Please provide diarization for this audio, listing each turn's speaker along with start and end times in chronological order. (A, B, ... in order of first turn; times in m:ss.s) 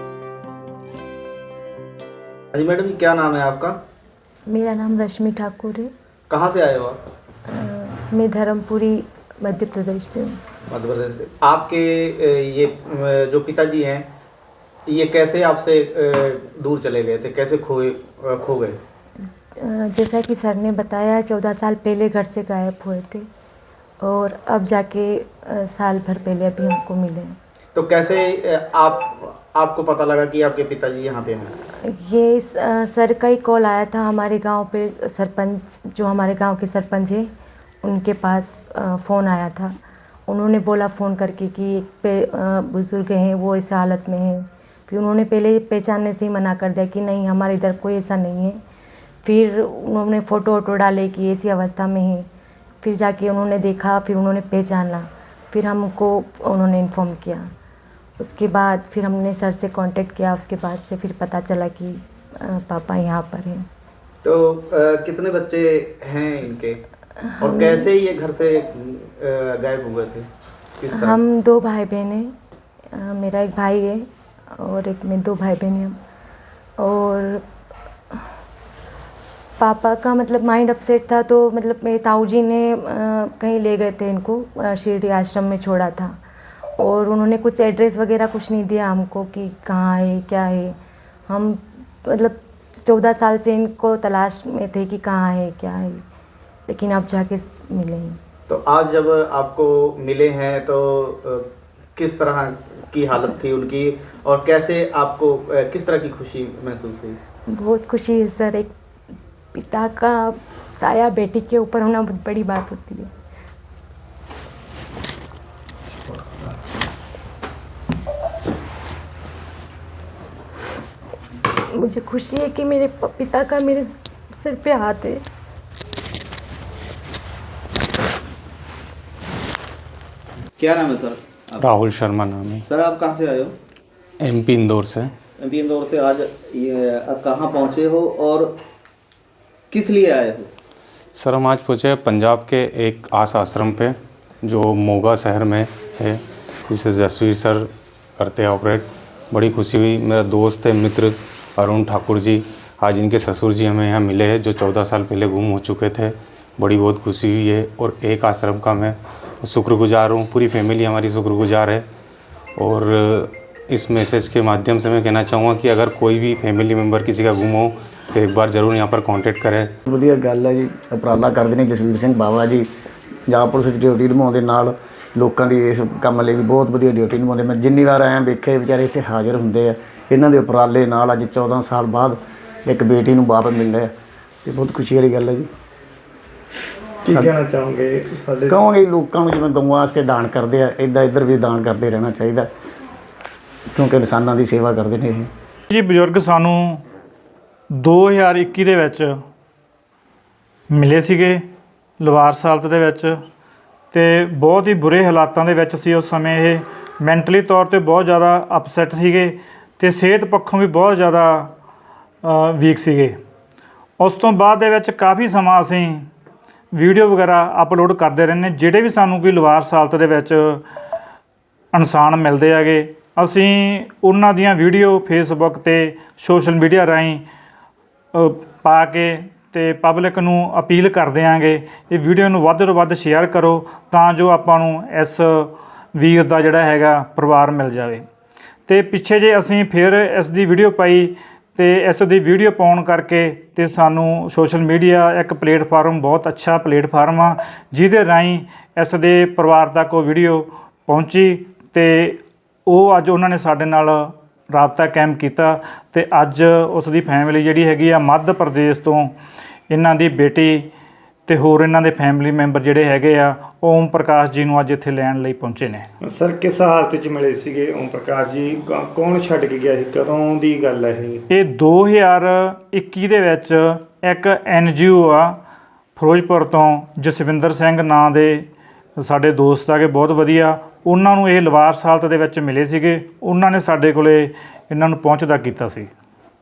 0:02.5-0:03.8 A
0:04.5-0:05.9 B
0:06.3-0:07.0 A
0:07.5-0:10.4 B
0:10.7-0:14.1 A
0:14.9-0:18.8 A
0:19.6-0:23.2 B
0:24.0-0:27.4 B
0:27.7-0:31.5 A
0:31.8-0:37.3 B
0:37.8-0:39.7 B
0:40.3-0:48.6 B
0:49.2-0:52.3 B
0:52.8-0:57.5 B
0:58.2-1:03.6 B
1:04.2-1:06.8 A
1:07.2-1:07.9 B
1:07.4-1:10.3 A
1:10.8-1:11.2 A
1:10.9-1:12.3 B
1:12.9-1:15.9 B
1:16.8-1:17.4 B
1:19.6-1:26.2 B
1:26.8-1:30.8 B
1:31.3-1:36.0 B
1:36.7-1:38.2 B
1:38.5-1:47.2 A
1:47.5-1:48.7 B
1:49.6-1:53.1 B
2:01.5-2:05.2 B
2:10.6-2:11.6 A
2:11.6-2:12.6 C
2:12.6-2:13.5 A
2:14.2-2:15.1 C
2:15.4-2:18.6 A
2:19.7-2:20.5 A
2:21.1-2:41.8 C
2:42.6-2:49.7 C
2:49.9-2:52.7 D
2:53.3-3:03.9 D
3:04.4-3:05.5 D
3:07.0-3:08.5 E
3:07.1-3:07.3 D
3:08.5-3:12.5 D
3:13.7-3:15.3 D
3:15.7-3:16.8 F
3:17.7-3:19.1 F
3:20.7-3:21.4 F
3:22.0-3:23.2 F
3:23.9-3:31.5 F
3:32.2-3:33.2 F
3:34.0-3:36.1 F
3:36.7-3:40.6 F
3:41.7-3:47.2 F
3:48.1-3:58.0 F
3:58.7-4:19.2 F
4:19.7-4:20.7 F
4:21.3-4:25.9 F
4:26.0-4:31.2 E
4:31.3-4:35.4 F
4:36.0-4:38.5 F
4:39.0-4:45.9 F